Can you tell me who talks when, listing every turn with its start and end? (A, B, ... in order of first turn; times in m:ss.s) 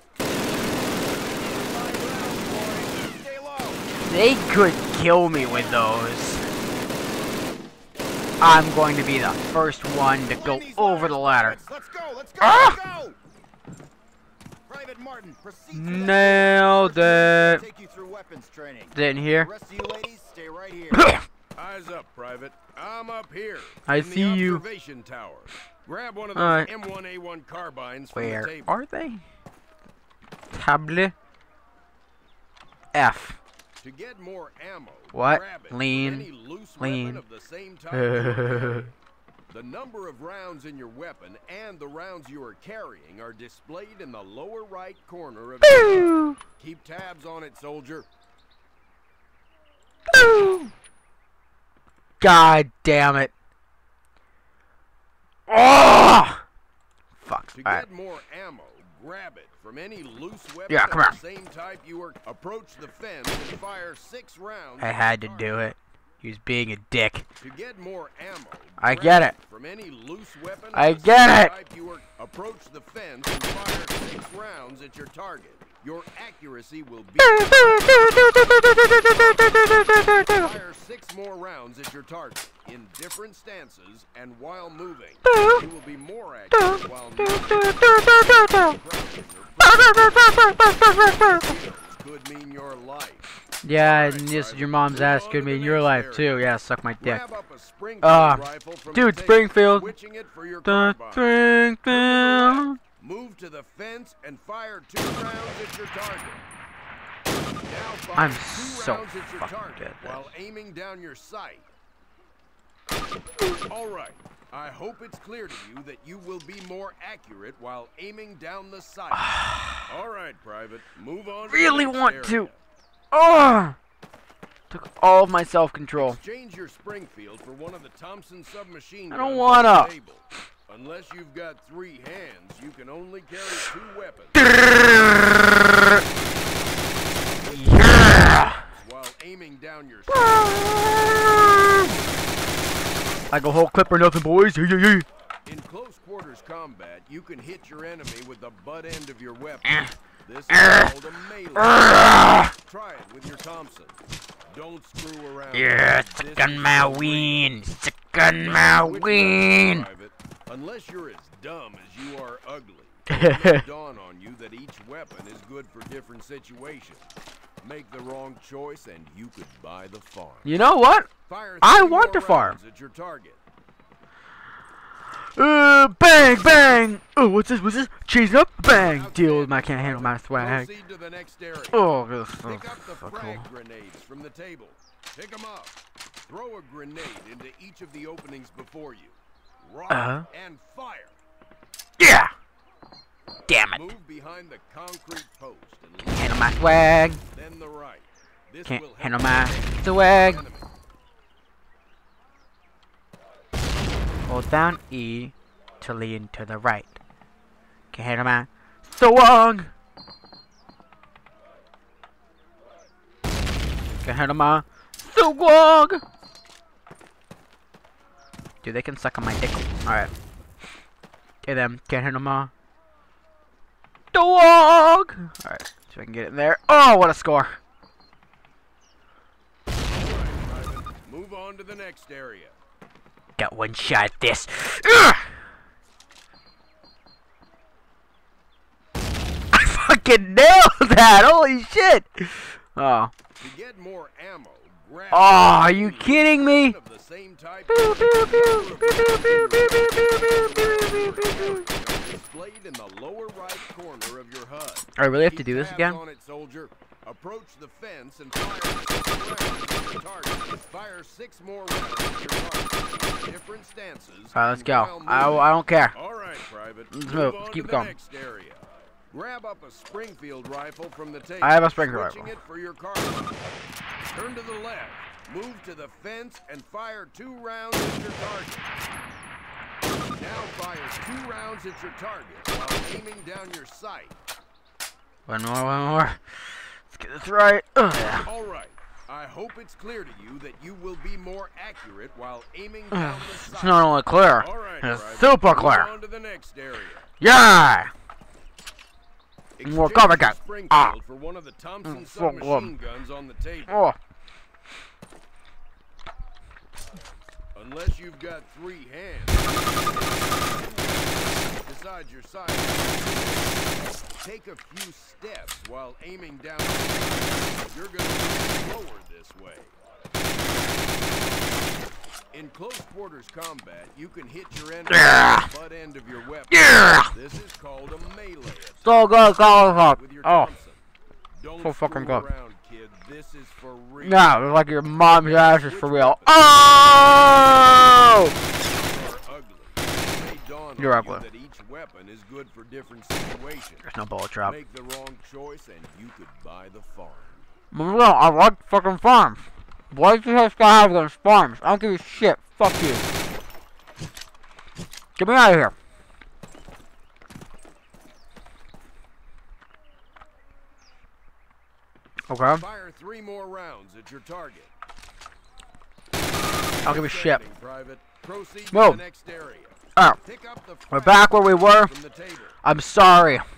0:01.4-0:03.9 A
0:04.1-0:06.4 B
0:05.5-0:05.8 A
0:08.4-0:11.6 B
0:10.3-0:13.2 A
0:12.4-0:12.8 B
0:14.7-0:21.1 A
0:15.7-0:17.6 B
0:18.9-0:19.5 B
0:21.0-0:21.2 B
0:21.6-0:28.7 C
0:23.9-0:24.6 B
0:26.4-0:26.7 B
0:28.1-0:29.2 B
0:30.5-0:31.2 B
0:32.9-0:33.4 B
0:33.8-0:38.9 C
0:35.1-0:37.2 B
0:37.9-0:38.9 B
0:39.5-0:48.1 C
0:45.6-0:46.4 B
0:50.1-0:50.7 B
0:52.2-0:53.3 B
0:55.5-0:56.4 B
0:57.2-0:57.8 B
0:57.6-1:05.7 C
1:00.7-1:01.2 B
1:04.8-1:07.2 B
1:07.4-1:18.4 C
1:08.8-1:09.4 B
1:10.8-1:11.5 B
1:17.2-1:20.5 B
1:19.1-1:19.7 C
1:20.2-1:36.5 C
1:25.2-1:25.6 B
1:26.5-1:28.8 B
1:29.6-1:31.6 B
1:33.6-1:37.2 B
1:37.0-1:46.4 C
1:38.0-1:39.9 B
1:40.6-1:42.8 B
1:47.7-1:51.7 C
1:48.2-1:50.2 B
1:53.7-2:02.6 C
1:59.2-1:59.9 B
2:01.5-2:02.5 B
2:03.1-2:03.8 B
2:04.7-2:06.2 B
2:06.0-2:14.6 C
2:09.1-2:09.9 B
2:14.4-2:16.0 B
2:17.4-2:18.6 B
2:17.4-2:21.0 C
2:20.1-2:22.0 B
2:23.3-2:25.1 B
2:25.4-2:37.5 C
2:29.7-2:29.9 B
2:30.5-2:30.9 B
2:31.6-2:32.5 B
2:35.5-2:39.9 B
2:38.3-2:47.1 C
2:43.1-2:43.6 B
2:47.6-2:50.6 C
2:50.4-2:51.1 B
2:51.3-2:53.4 C
2:51.6-2:52.6 B
2:55.4-3:00.7 B
2:58.7-3:01.8 C
3:01.7-3:03.4 B
3:02.4-3:11.2 C
3:09.9-3:10.3 B
3:12.0-3:12.3 B
3:13.5-3:13.9 B
3:13.7-3:16.7 C
3:16.0-3:17.2 B
3:17.3-3:20.7 C
3:18.6-3:20.4 B
3:24.3-3:27.0 B
3:27.9-3:29.7 B
3:34.0-3:36.0 B
3:38.6-3:40.1 B
3:41.4-3:42.5 B
3:44.1-3:47.6 B
3:49.9-3:52.6 C
3:53.4-3:55.3 B
3:59.5-4:03.1 B
4:03.4-4:33.5 C
4:05.1-4:06.8 B
4:07.7-4:11.6 B
4:15.0-4:16.0 B
4:24.3-4:26.0 B
4:26.9-4:27.9 B
4:31.4-4:32.4 B
4:34.1-4:38.7 C
4:40.2-4:44.2 C
4:45.3-4:46.2 B
4:46.9-4:48.3 B
4:48.2-4:57.1 C
4:52.9-4:55.9 B
4:57.2-4:57.9 B
4:59.6-5:03.8 C
4:59.6-5:01.0 B
5:01.8-5:02.7 B
5:03.7-5:04.0 B
5:07.5-5:19.7 C
5:22.3-5:30.8 C
5:24.9-5:25.5 B
5:26.5-5:27.1 B
5:28.8-5:30.5 B
5:31.4-5:34.4 C
5:31.6-5:32.3 B
5:34.0-5:38.4 B
5:35.1-5:43.8 C
5:40.8-5:41.2 B
5:43.8-5:44.6 B
5:44.4-5:47.4 C
5:47.7-5:53.0 B
5:55.2-5:55.8 B
6:02.3-6:02.6 B
6:02.5-6:04.7 C
6:06.8-6:12.6 C
6:06.8-6:07.4 B
6:08.7-6:09.0 B
6:10.9-6:11.9 B
6:12.6-6:13.4 B